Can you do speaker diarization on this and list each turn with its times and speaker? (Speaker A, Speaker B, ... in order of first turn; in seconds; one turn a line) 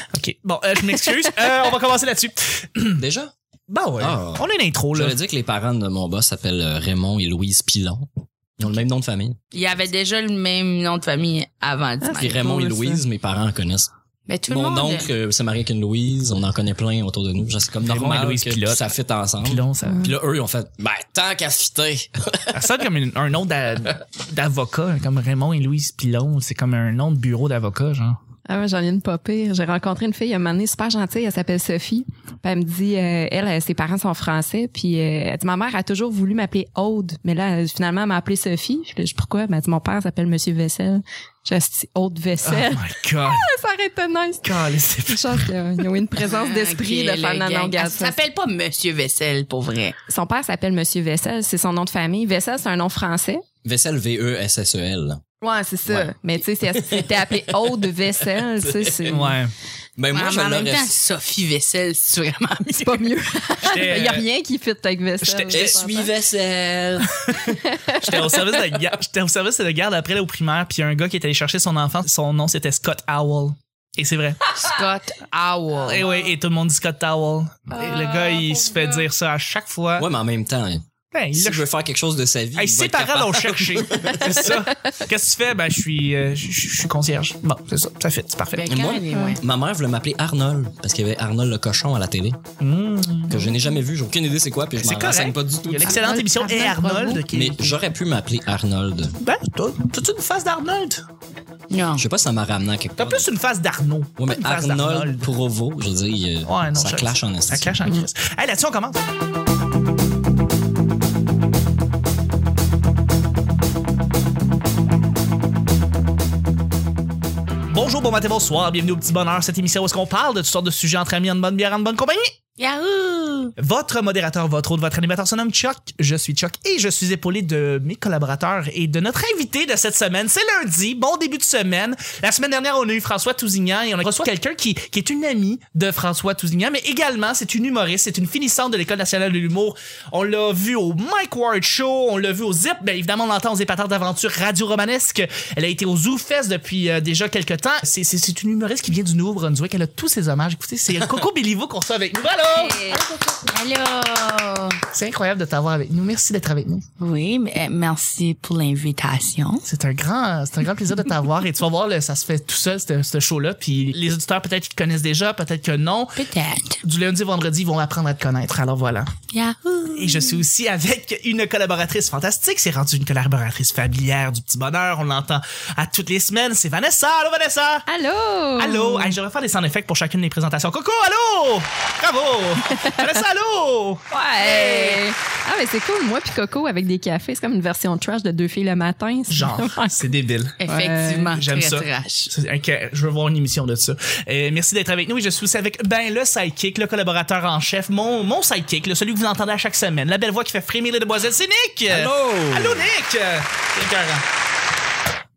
Speaker A: 0.1-3.0
Speaker B: 3.0-3.3
Speaker A: 3.7-5.2
Speaker B: 4.0-9.4
Speaker C: 9.5-12.6
Speaker D: 12.0-13.0
Speaker B: 12.1-13.9
Speaker C: 14.3-15.1
Speaker B: 14.5-22.7
Speaker A: 17.8-18.9
Speaker A: 19.4-20.1
Speaker D: 19.9-20.1
Speaker A: 22.5-28.2
Speaker D: 28.5-48.1
Speaker A: 42.4-43.5
Speaker A: 44.4-45.5
Speaker C: 46.2-50.0
Speaker D: 50.1-53.4
Speaker B: 53.6-55.2
Speaker D: 55.4-59.4
Speaker B: 55.9-59.3
Speaker A: 59.1-59.5
Speaker B: 60.0-60.9
Speaker C: 60.1-63.0
Speaker D: 62.8-66.1
Speaker A: 63.6-64.2
Speaker A: 65.2-65.8
Speaker B: 65.5-67.3
Speaker A: 67.2-74.5
Speaker D: 67.5-68.6
Speaker C: 74.5-76.3
Speaker A: 75.8-80.1
Speaker C: 77.8-79.0
Speaker B: 80.0-84.5
Speaker A: 81.1-81.6
Speaker A: 82.5-88.7
Speaker C: 88.5-89.4
Speaker B: 88.7-92.4
Speaker D: 89.1-89.4
Speaker A: 92.6-93.5
Speaker B: 93.3-96.0
Speaker A: 94.8-97.7
Speaker D: 95.9-97.2
Speaker B: 97.3-99.2
Speaker A: 99.2-101.0
Speaker C: 101.7-102.0
Speaker B: 102.0-103.3
Speaker A: 103.0-105.3
Speaker B: 104.2-107.8
Speaker A: 106.4-109.0
Speaker A: 117.7-122.3
Speaker C: 122.6-123.5
Speaker A: 123.6-153.1
Speaker C: 152.5-154.8
Speaker A: 154.9-156.8
Speaker C: 157.0-159.6
Speaker A: 159.7-166.2
Speaker C: 166.2-166.8
Speaker A: 166.8-169.1
Speaker C: 169.3-170.4
Speaker A: 169.9-177.8
Speaker D: 177.9-179.2
Speaker A: 178.6-184.0
Speaker D: 184.1-190.1
Speaker C: 184.4-185.0
Speaker A: 189.3-190.6
Speaker C: 190.6-192.3
Speaker D: 190.7-191.3
Speaker A: 191.3-204.2
Speaker B: 201.9-202.9